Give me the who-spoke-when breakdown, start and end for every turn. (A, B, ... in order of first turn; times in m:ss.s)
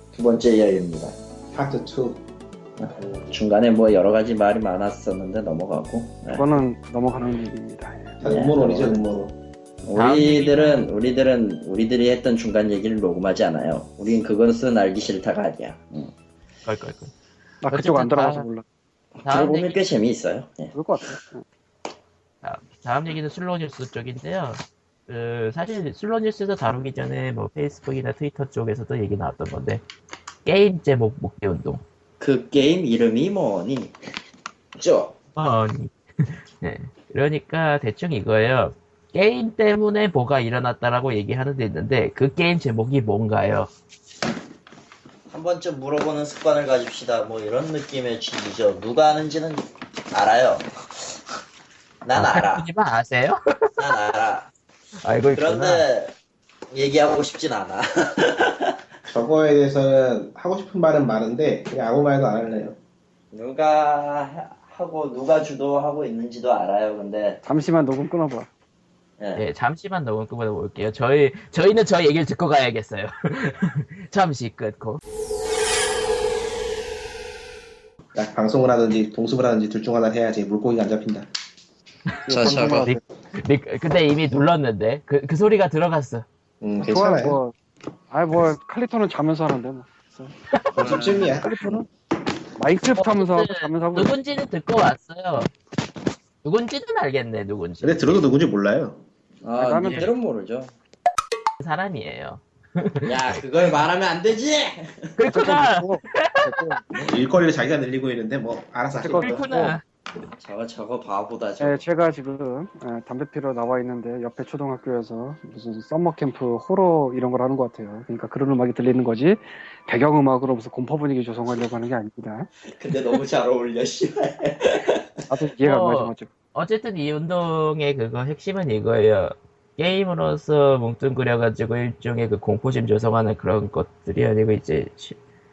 0:00.1-0:01.2 A
0:01.5-0:02.2 B
0:02.8-0:06.6 A
0:06.3-0:08.2 C
0:08.2-0:09.4 B
0:08.2-0:09.0 A
0:09.8-0:16.1 A
0:10.0-0:10.9 D
0:16.6-0:17.1 D
0:17.6-0:18.6 C
0:17.7-0:18.5 D
0:19.2-0:21.1 A
0:19.2-0:19.8 D
0:20.8-0:21.4 C
0:22.4-0:29.8 D
0:30.4-0:31.8 D
0:32.2-0:33.9 A
0:34.8-0:35.2 A
0:35.4-0:43.7 D
0:45.3-0:50.7 A
0:52.0-0:52.7 A
0:52.2-0:53.7 D
0:53.8-0:54.5 A
0:55.0-0:55.9 D
0:55.4-0:56.1 A
0:56.7-0:58.7 A
0:59.0-1:02.8 B
1:03.3-1:07.4 A
1:07.4-1:08.5 C
1:09.2-1:09.4 A
1:09.4-1:15.0 D
1:18.2-1:21.3 B
1:22.3-1:23.0 C
1:22.3-1:22.9 A
1:22.3-1:26.2 D
1:26.6-1:27.4 B
1:26.8-1:27.6 C
1:28.1-1:31.8 C
1:30.5-1:31.3 D
1:30.8-1:31.9 B
1:32.6-1:34.1 C
1:33.0-1:35.5 D
1:36.4-1:38.2 D
1:37.8-1:39.0 B
1:39.4-1:40.7 A
1:39.6-1:40.1 C
1:41.6-1:43.8 D
1:43.1-1:45.2 A
1:45.2-1:46.8 D
1:45.3-1:46.8 C
1:47.1-1:49.5 B
1:48.9-1:49.8 C
1:49.2-1:49.8 D
1:50.4-1:51.9 A
1:51.6-2:02.5 C
2:02.6-2:05.0 A
2:05.3-2:06.3 C
2:05.6-2:15.2 D